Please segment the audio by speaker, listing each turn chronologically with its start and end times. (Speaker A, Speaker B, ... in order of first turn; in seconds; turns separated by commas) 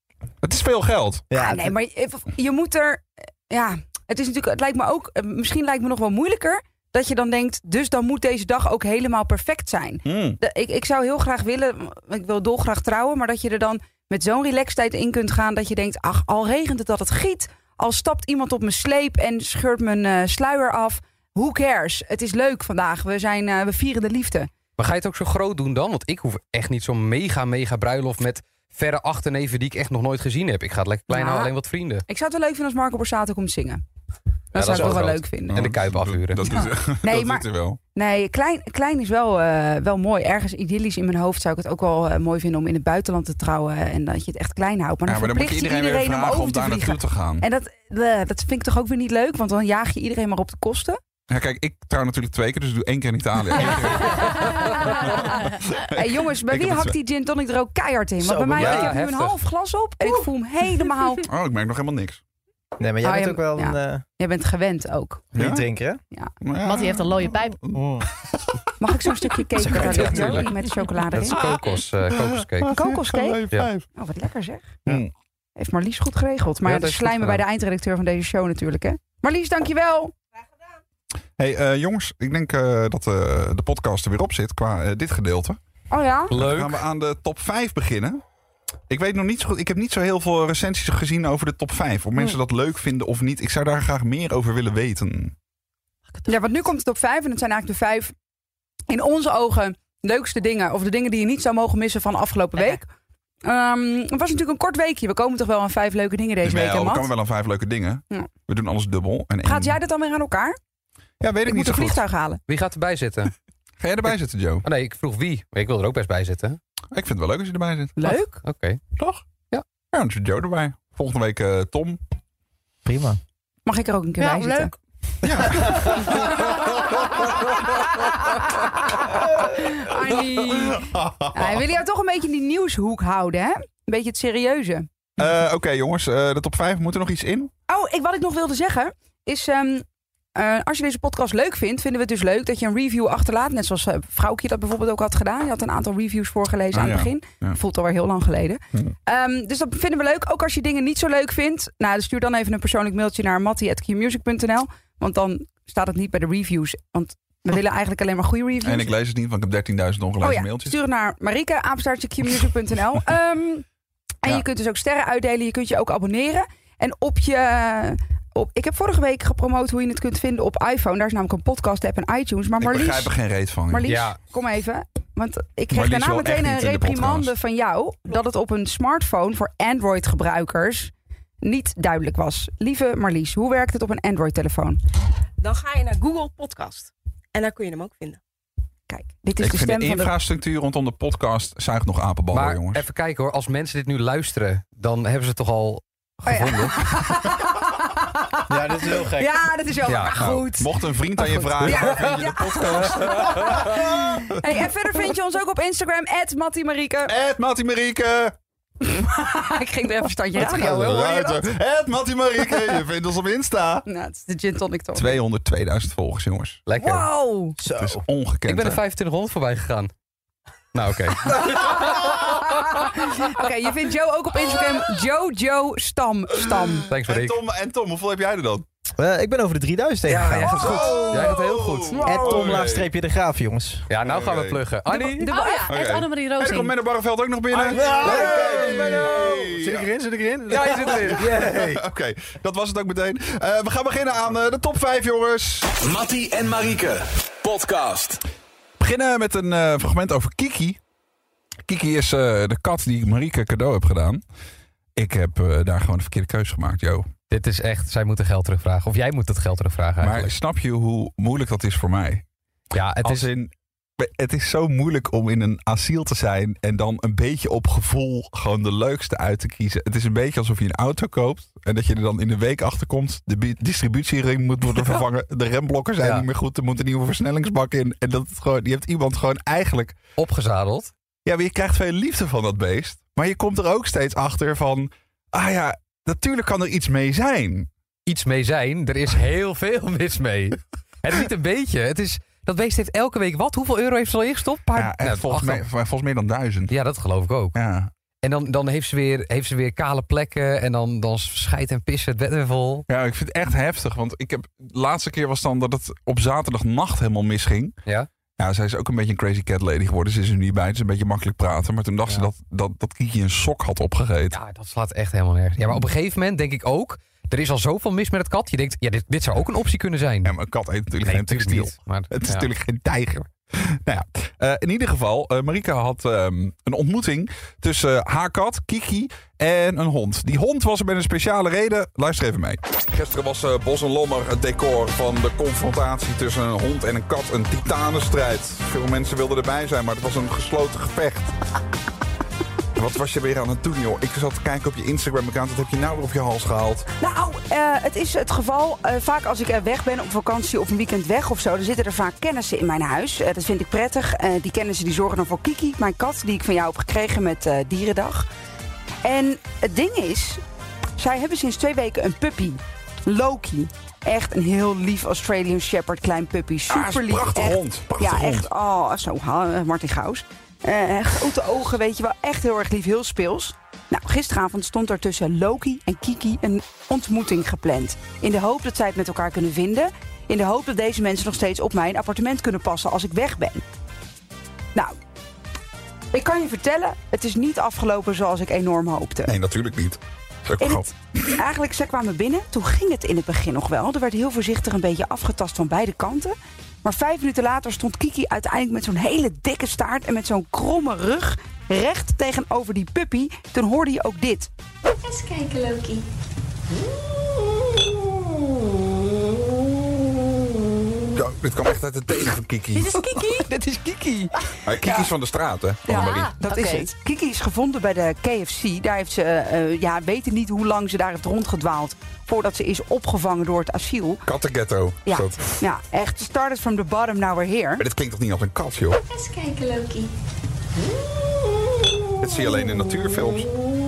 Speaker A: 0.4-1.2, Speaker B: 1.3-1.8, Speaker C: 1.4-24.5, Speaker A: 10.1-10.4, Speaker D: 24.8-32.0, Speaker C: 31.1-31.5, Speaker C: 32.1-33.8, Speaker C: 34.5-35.6, Speaker D: 34.5-36.5, Speaker A: 34.6-37.8, Speaker C: 36.5-51.0, Speaker A: 45.1-47.5, Speaker A: 51.3-57.0, Speaker C: 53.6-61.3, Speaker B: 58.2-59.0, Speaker D: 58.5-59.4, Speaker A: 61.2-62.2, Speaker B: 62.8-64.0, Speaker C: 63.0-65.3, Speaker B: 65.3-66.0, Speaker A: 65.3-65.6, Speaker A: 66.4-67.8, Speaker E: 66.6-67.6, Speaker B: 67.7-68.1, Speaker C: 68.8-71.4, Speaker B: 69.6-70.5, Speaker A: 69.7-70.4, Speaker D: 69.9-70.5, Speaker D: 71.1-72.7, Speaker A: 71.3-71.6, Speaker A: 72.2-73.9, Speaker C: 72.7-74.8, Speaker A: 74.9-75.1, Speaker C: 75.6-80.1, Speaker D: 76.7-77.4, Speaker A: 81.4-85.6, Speaker C: 85.9-86.3, Speaker A: 86.3-88.2, Speaker D: 86.3-86.8, Speaker A: 88.9-95.3, Speaker C: 96.3-98.1, Speaker C: 98.9-102.8, Speaker C: 103.4-107.1, Speaker A: 106.4-109.8, Speaker C: 109.4-110.6, Speaker A: 111.2-112.0, Speaker C: 111.5-112.4, Speaker D: 112.5-113.3, Speaker A: 113.8-114.7, Speaker D: 114.7-116.6, Speaker A: 116.9-118.0, Speaker C: 118.0-118.4, Speaker D: 118.4-118.8, Speaker A: 119.0-119.2, Speaker A: 119.9-122.0, Speaker B: 122.8-123.2, Speaker C: 123.7-124.7, Speaker E: 124.2-124.7, Speaker A: 125.2-127.9, Speaker C: 129.1-134.9, Speaker A: 130.6-131.6, Speaker A: 135.2-137.5, Speaker C: 137.7-158.9, Speaker A: 146.7-147.6, Speaker A: 158.6-160.8, Speaker C: 160.2-163.7, Speaker C: 164.2-173.1, Speaker A: 172.6-173.9, Speaker C: 173.7-184.8, Speaker D: 173.9-174.2, Speaker A: 175.7-177.3, Speaker F: 185.4-188.2, Speaker C: 188.9-190.1, Speaker A: 189.4-192.8, Speaker D: 192.3-196.9, Speaker C: 196.3-207.1, Speaker B: 198.5-199.3, Speaker D: 199.9-200.2, Speaker A: 200.2-204.4, Speaker A: 207.1-208.3, Speaker C: 208.8-211.5, Speaker A: 210.4-213.9, Speaker C: 213.9-215.2, Speaker A: 214.9-216.6, Speaker D: 216.7-217.1, Speaker C: 216.8-217.6, Speaker B: 217.6-218.0, Speaker A: 217.8-218.8, Speaker D: 218.5-219.9, Speaker D: 220.7-222.2, Speaker C: 221.6-226.9, Speaker D: 226.9-227.4, Speaker A: 227.1-228.7, Speaker B: 229.0-231.2, Speaker D: 230.1-232.0, Speaker A: 230.6-232.9, Speaker B: 232.0-233.9, Speaker C: 232.0-232.4, Speaker D: 233.9-235.3, Speaker A: 234.0-234.6, Speaker C: 234.9-235.7, Speaker E: 235.3-236.7, Speaker A: 235.7-239.9, Speaker B: 237.6-241.6, Speaker D: 237.8-238.2, Speaker D: 240.5-241.8, Speaker A: 240.6-245.7, Speaker G: 245.8-248.2, Speaker A: 248.8-250.8, Speaker A: 251.7-254.2, Speaker A: 255.0-257.1, Speaker D: 257.3-260.3, Speaker A: 260.0-262.2, Speaker D: 262.7-263.3, Speaker A: 263.0-280.0, Speaker D: 274.7-275.0, Speaker D: 280.2-280.9, Speaker A: 281.2-287.7, Speaker D: 288.1-295.7, Speaker A: 294.8-296.7, Speaker D: 296.7-297.6, Speaker A: 297.5-297.9, Speaker D: 298.2-302.9, Speaker A: 302.9-307.8, Speaker A: 308.4-314.4, Speaker D: 314.3-320.3, Speaker A: 320.2-341.4, Speaker D: 321.0-322.5, Speaker A: 342.8-346.9, Speaker C: 347.0-358.3, Speaker C: 359.0-360.4, Speaker C: 361.0-383.6, Speaker A: 366.7-368.5, Speaker C: 386.1-389.3, Speaker A: 389.3-391.4, Speaker C: 390.6-404.5, Speaker H: 404.9-406.1, Speaker A: 411.1-412.9, Speaker E: 412.8-413.5, Speaker A: 414.6-416.3, Speaker C: 414.8-415.1, Speaker C: 415.9-424.2, Speaker E: 416.0-416.9, Speaker A: 424.2-425.4, Speaker C: 425.1-427.8, Speaker A: 427.8-429.0, Speaker H: 429.0-430.1, Speaker A: 432.2-433.5